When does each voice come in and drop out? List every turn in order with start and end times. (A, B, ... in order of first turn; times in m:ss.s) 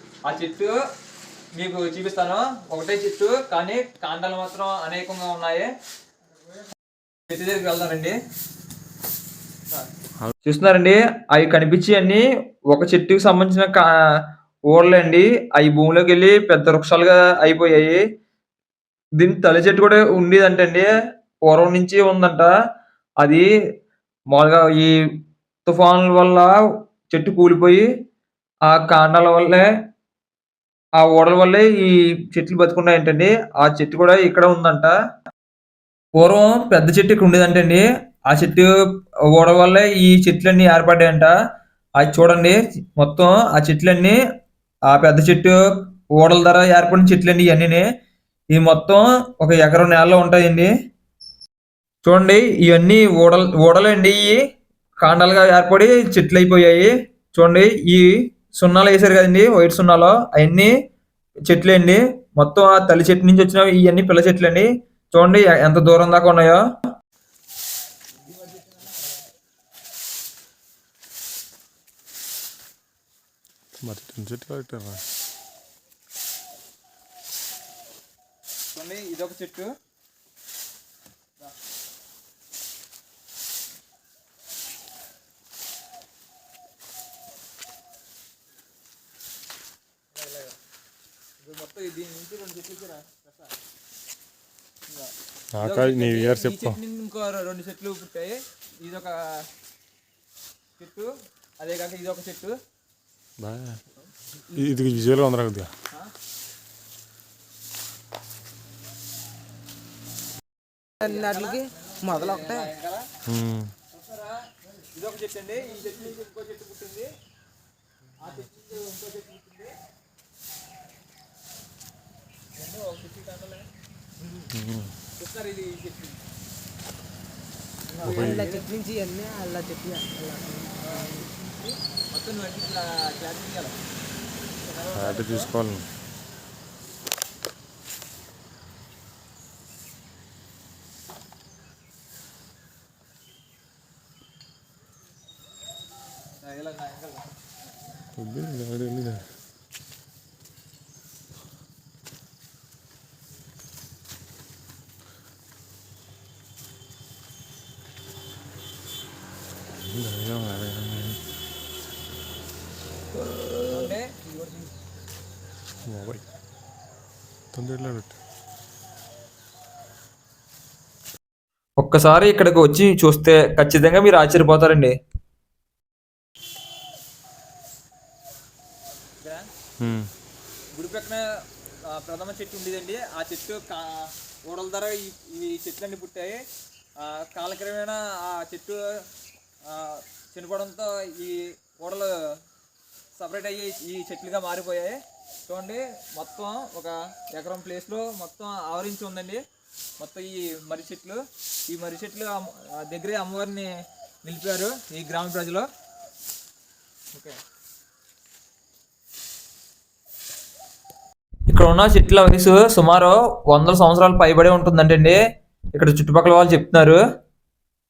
0:00.3-0:00.7 A
0:01.6-0:05.7 A
0:07.3-0:08.2 A
0:10.4-0:13.9 A
0:14.7-0:18.0 A
0:19.2-0:20.9 A
0:21.4-0:22.5 A
0:23.2-0:23.4 A
0:24.3-0:24.9 A
0:25.6-0:26.5 A
0:27.1-0:27.8 A
0:28.7-0:29.6 A
0:31.0-0:34.9 A
0:36.2-0:38.7 A
0:39.3-0:41.3 A
0:42.0-0:44.2 A
0:44.9-0:45.6 A
0:46.2-0:47.8 A
0:48.5-0:50.7 A
0:52.0-0:54.4 A
0:55.0-1:00.7 A
1:01.5-1:06.6 A
1:13.8-1:15.0 B
1:18.7-1:19.7 A
1:30.2-1:30.5 A
1:31.4-1:33.5 A
1:34.9-1:39.4 A
1:35.5-1:36.8 B
1:40.8-1:42.6 A
1:43.4-1:43.8 B
1:44.5-1:45.7 B
1:51.0-1:52.7 C
1:51.0-1:53.0 A
1:53.2-1:53.7 B
1:53.9-1:54.4 A
1:54.9-1:57.1 A
1:58.2-1:59.7 A
2:02.6-2:03.7 A
2:04.2-2:04.5 A
2:04.5-2:04.9 B
2:05.2-2:06.2 A
2:07.9-2:08.7 A
2:08.0-2:08.5 B
2:08.2-2:10.7 C
2:10.8-2:13.8 A
2:14.6-2:15.5 A
2:14.9-2:15.8 B
2:26.4-2:27.3 A
2:28.2-2:29.2 B
2:39.8-2:41.2 B
2:43.2-2:44.0 A
2:45.8-2:46.2 B
2:47.5-2:48.2 B
2:51.8-2:54.9 A
2:59.2-2:59.5 A
2:59.8-3:00.1 B
3:00.7-3:01.2 A
3:01.9-3:06.4 A
3:07.0-3:08.8 A
3:09.6-3:12.1 A
3:13.2-3:19.4 A
3:20.0-3:23.7 A
3:24.2-3:25.7 A
3:31.5-3:35.2 A
3:35.7-3:37.0 A